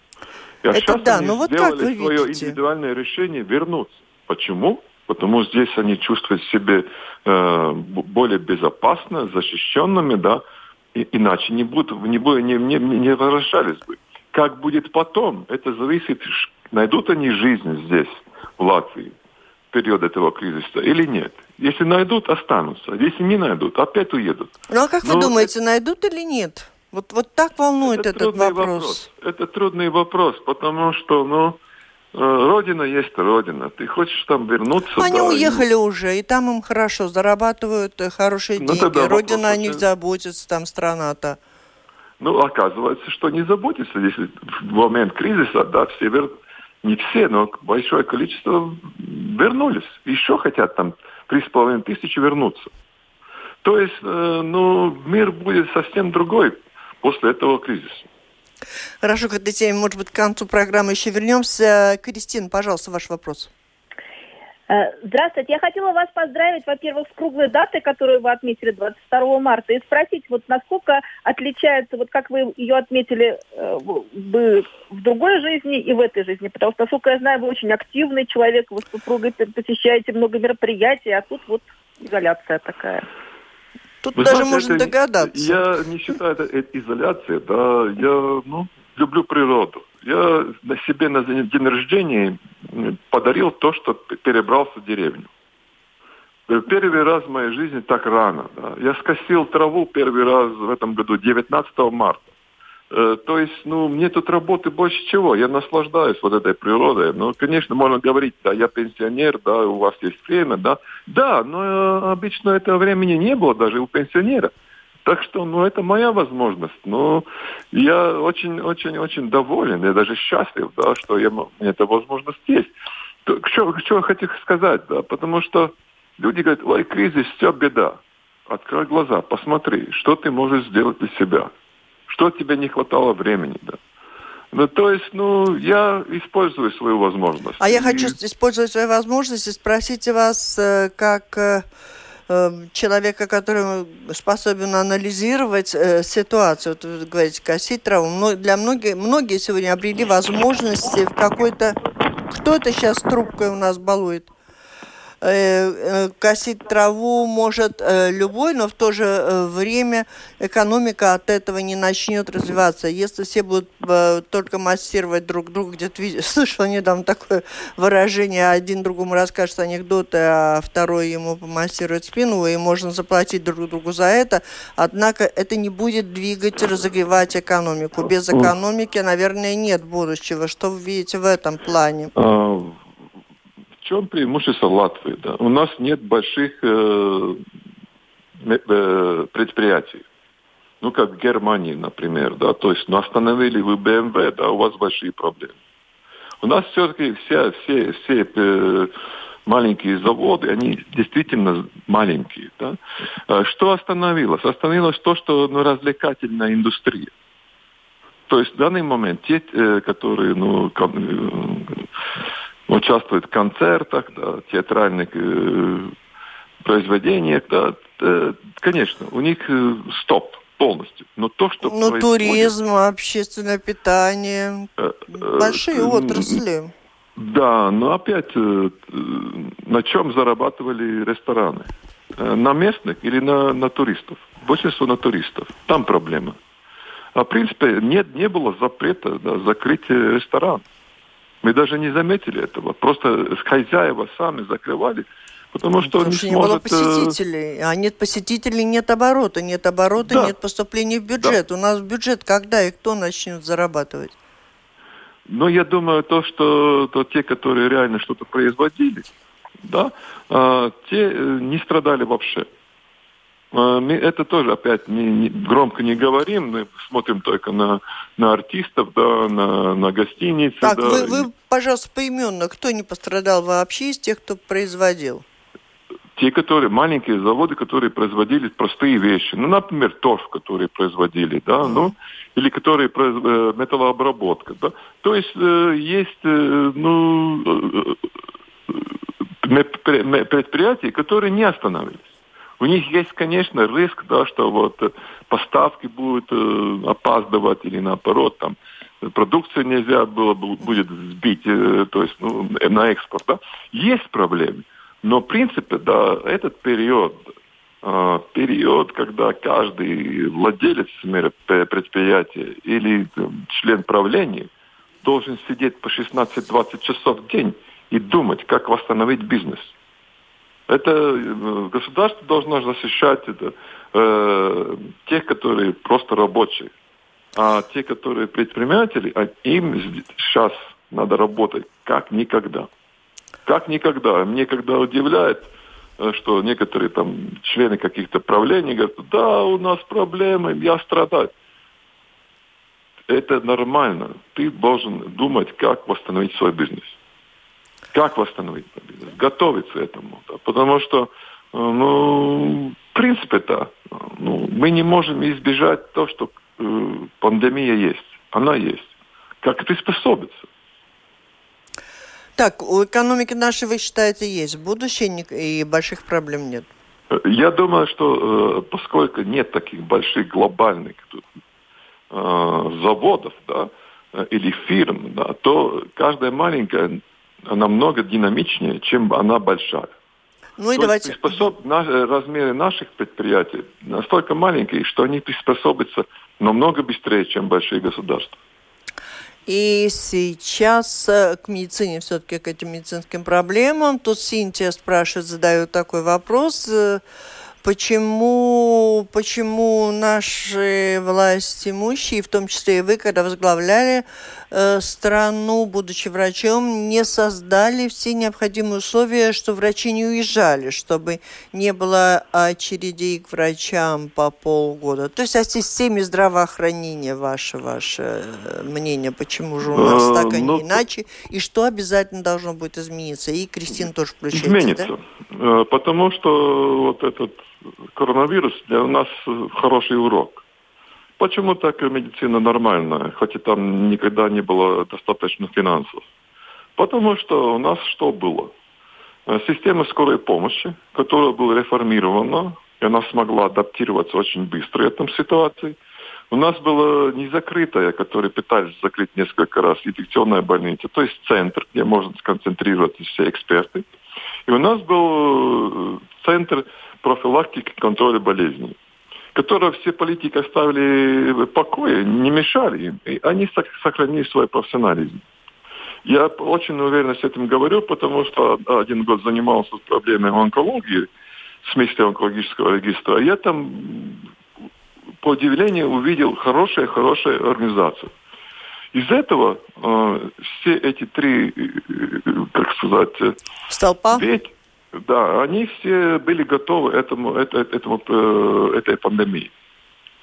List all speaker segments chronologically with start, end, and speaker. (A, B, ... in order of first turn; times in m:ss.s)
0:00.6-0:10.4 A
0:00.7-0:02.6 B
0:10.9-0:19.1 A
0:19.7-0:25.5 A
0:24.7-0:29.1 B
0:27.8-0:31.6 A
0:32.1-0:35.6 A
0:35.0-0:41.4 B
0:38.6-0:39.8 A
0:42.2-0:52.7 A
0:53.6-0:58.1 A
0:59.0-1:03.5 B
1:04.7-1:23.1 C
1:24.0-1:25.6 B
1:24.2-1:35.3 A
1:36.5-1:42.3 A
1:42.9-1:54.5 A
1:55.0-2:02.7 A
2:03.2-2:11.5 A
2:12.1-2:13.8 A
2:14.5-2:18.2 A
2:17.6-2:21.6 B
2:22.3-2:31.8 B
2:32.3-2:34.3 B
2:35.2-3:02.1 B
3:02.1-3:02.8 A
3:03.8-3:07.4 A
3:08.4-3:10.0 A
3:10.8-3:15.6 A
3:16.4-3:18.9 A
3:19.4-3:27.1 A
3:28.3-3:31.9 A
3:32.7-3:35.9 A
3:36.6-3:42.5 A
3:41.6-3:46.7 B
3:44.8-3:46.4 A
3:47.2-3:56.4 A
3:57.1-4:00.6 A
4:01.4-4:07.2 A
4:05.8-4:14.2 B
4:10.0-4:10.3 A
4:15.3-4:19.1 A
4:19.6-4:22.5 A
4:23.5-4:31.3 A
4:30.6-4:35.2 B
4:36.1-4:48.0 A
4:41.6-4:41.9 B
4:48.7-4:52.0 A
4:52.6-5:14.5 A
5:15.0-5:19.7 A
5:20.7-5:26.7 A
5:27.3-5:32.7 A
5:33.4-5:41.3 A
5:43.1-5:47.0 A
5:47.9-5:58.9 A
5:59.4-6:00.5 A
6:02.4-6:06.7 B
6:07.1-6:11.2 A
6:12.1-6:19.9 A
6:20.6-6:21.4 B
6:20.7-6:28.4 A
6:29.5-6:37.0 B
6:37.6-7:04.9 B
6:59.7-7:00.8 A
7:04.3-7:10.4 A
7:11.2-7:16.0 A
7:16.8-7:18.5 A
7:19.2-7:25.8 A
7:26.3-7:33.9 A
7:34.5-7:38.8 A
7:39.3-7:45.2 A
7:46.0-7:51.1 A
7:51.6-7:54.2 A
7:55.2-7:58.1 A
7:58.9-8:03.4 A
8:03.7-8:04.2 B
8:04.1-8:09.5 A